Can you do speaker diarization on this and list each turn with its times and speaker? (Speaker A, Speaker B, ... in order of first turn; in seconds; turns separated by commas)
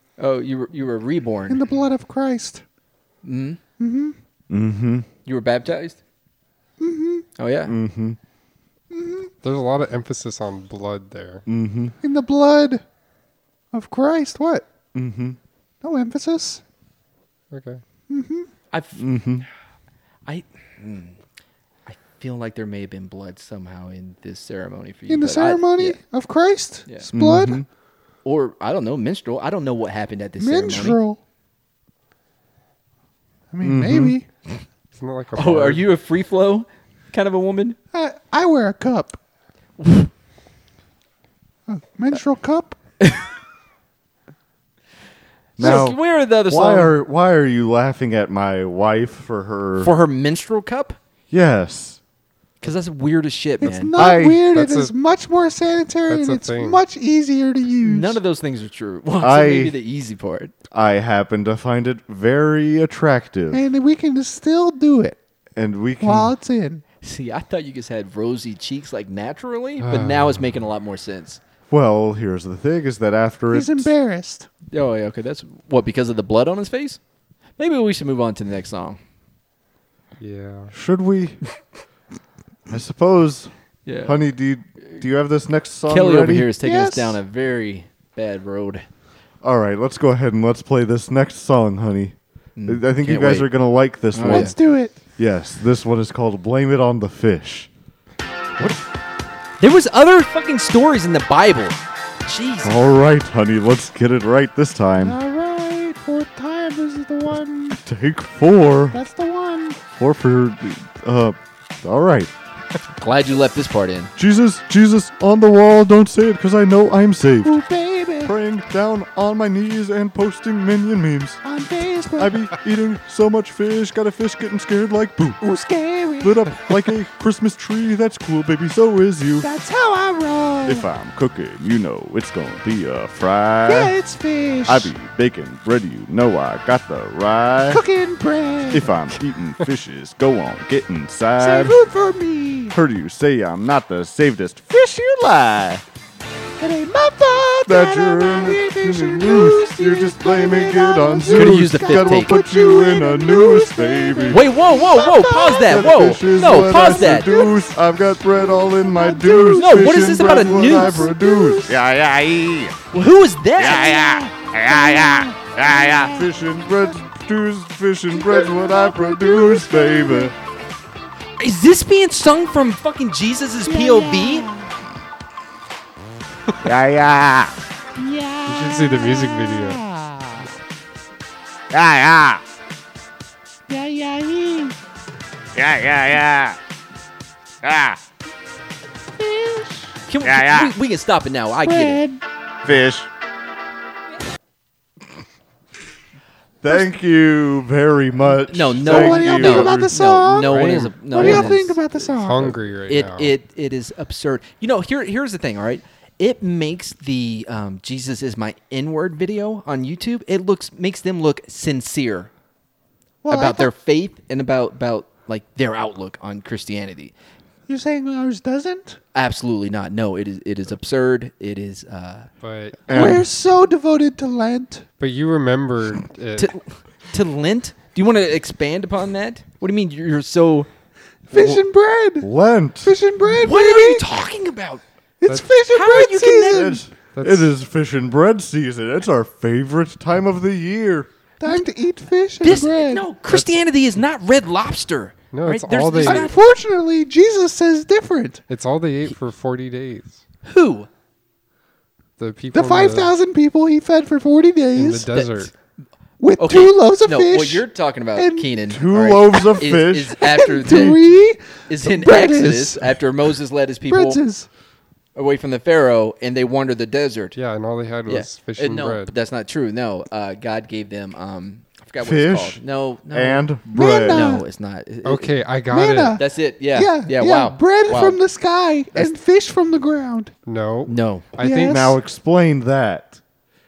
Speaker A: 0.2-1.6, Speaker B: 1.5-2.6, Speaker A: 3.2-3.6, Speaker B: 3.8-4.2, Speaker C: 4.5-5.1, Speaker A: 5.2-6.0, Speaker B: 6.8-7.3, Speaker A: 7.4-7.8, Speaker C: 7.7-8.2, Speaker B: 8.9-9.3, Speaker D: 9.4-11.4, Speaker C: 11.5-11.9, Speaker B: 12.0-12.8, Speaker B: 13.7-14.7, Speaker C: 14.9-15.4, Speaker B: 15.8-16.6, Speaker D: 17.5-17.8, Speaker B: 18.1-18.5, Speaker A: 18.7-19.1, Speaker C: 18.9-19.4, Speaker A: 20.3-21.2, Speaker A: 21.9-26.0, Speaker B: 25.1-27.6, Speaker C: 27.0-27.6, Speaker A: 28.2-31.0, Speaker B: 30.4-31.2, Speaker B: 33.5-34.3, Speaker C: 33.6-34.2, Speaker D: 35.0-35.9, Speaker A: 35.4-37.8, Speaker B: 37.9-39.2, Speaker A: 39.8-40.1, Speaker B: 41.7-42.8, Speaker A: 45.6-46.9, Speaker C: 45.6-49.9, Speaker A: 49.8-51.0, Speaker C: 51.3-52.0, Speaker A: 52.6-53.9, Speaker B: 53.6-58.2, Speaker C: 53.9-54.4, Speaker D: 54.5-54.9, Speaker D: 56.1-56.8, Speaker A: 57.8-60.5, Speaker C: 59.2-59.8, Speaker C: 60.7-63.6, Speaker B: 63.5-65.2, Speaker C: 65.6-66.3, Speaker B: 66.0-66.8, Speaker A: 67.0-71.4, Speaker D: 69.8-70.4, Speaker C: 71.7-73.9, Speaker B: 73.5-74.5, Speaker A: 74.7-77.0, Speaker A: 77.6-79.0, Speaker D: 80.2-80.7, Speaker C: 80.7-81.4, Speaker C: 82.7-86.5, Speaker A: 83.8-84.2, Speaker A: 85.9-88.9, Speaker B: 86.6-87.2, Speaker C: 89.4-94.6, Speaker A: 92.6-93.5, Speaker A: 94.1-94.5, Speaker B: 94.2-95.0, Speaker C: 95.2-97.7, Speaker A: 99.6-102.7, Speaker C: 102.6-105.2, Speaker B: 105.0-107.8, Speaker C: 107.8-109.0, Speaker B: 108.9-109.8, Speaker C: 109.9-112.3, Speaker A: 113.0-114.1, Speaker C: 114.2-117.6, Speaker B: 117.4-118.3, Speaker C: 118.2-121.4, Speaker B: 121.4-122.4, Speaker C: 122.2-125.4, Speaker B: 125.4-126.5, Speaker C: 126.2-129.5, Speaker B: 129.4-130.9, Speaker C: 130.7-133.9, Speaker B: 133.7-134.9, Speaker C: 134.7-137.8, Speaker B: 137.7-138.9, Speaker C: 138.7-141.8, Speaker B: 141.4-142.8, Speaker C: 142.7-145.8, Speaker B: 146.6-157.6, Speaker C: 147.7-154.8, Speaker A: 151.3-152.4, Speaker A: 154.3-157.5, Speaker C: 155.4-161.7, Speaker B: 158.6-161.7, Speaker A: 159.6-161.1, Speaker E: 161.7-162.7, Speaker A: 162.9-164.3, Speaker E: 163.6-166.1, Speaker B: 164.5-166.3, Speaker C: 165.7-170.3, Speaker B: 168.1-170.3, Speaker A: 171.4-174.5, Speaker B: 173.6-174.7, Speaker E: 176.6-177.5, Speaker B: 177.9-180.5, Speaker D: 178.4-179.8, Speaker E: 181.7-182.4, Speaker B: 183.7-184.7, Speaker E: 185.6-186.6, Speaker E: 187.6-188.0, Speaker B: 189.2-189.9, Speaker A: 190.1-192.0, Speaker E: 190.2-190.7, Speaker B: 191.7-192.2, Speaker E: 192.7-193.1, Speaker C: 196.6-199.9, Speaker A: 198.5-212.3, Speaker B: 198.8-202.6, Speaker D: 200.4-201.5, Speaker D: 202.2-203.3, Speaker B: 213.2-213.7, Speaker A: 213.3-217.1, Speaker B: 217.7-219.0, Speaker A: 219.1-222.3, Speaker D: 222.4-222.9, Speaker C: 222.9-223.3, Speaker B: 222.9-224.9, Speaker D: 225.0-226.5, Speaker A: 226.4-230.7, Speaker A: 231.3-231.6, Speaker B: 231.3-232.3, Speaker C: 232.2-232.9, Speaker B: 232.8-234.1, Speaker A: 233.3-234.8, Speaker B: 235.2-236.8, Speaker A: 235.7-236.7, Speaker C: 236.5-241.1, Speaker D: 237.1-237.5, Speaker B: 241.4-243.1, Speaker A: 242.4-246.4, Speaker D: 243.3-243.6, Speaker D: 245.3-246.3, Speaker B: 246.0-248.4, Speaker D: 248.5-250.2, Speaker A: 250.4-250.9, Speaker D: 252.2-253.1, Speaker B: 252.5-255.1, Speaker D: 254.7-255.5, Speaker A: 255.1-255.5, Speaker B: 256.2-258.6, Speaker A: 256.4-261.1, Speaker C: 258.7-260.2, Speaker B: 260.2-263.0, Speaker A: 261.7-264.2, Speaker B: 263.9-264.5, Speaker A: 265.1-267.4, Speaker D: 267.3-269.1, Speaker A: 268.1-275.4, Speaker C: 272.0-274.3, Speaker B: 273.7-274.4, Speaker D: 275.0-276.2, Speaker B: 275.7-280.3, Speaker A: 276.2-278.2, Speaker D: 280.4-281.9, Speaker A: 280.9-281.4, Speaker B: 281.4-282.0, Speaker C: 281.7-283.2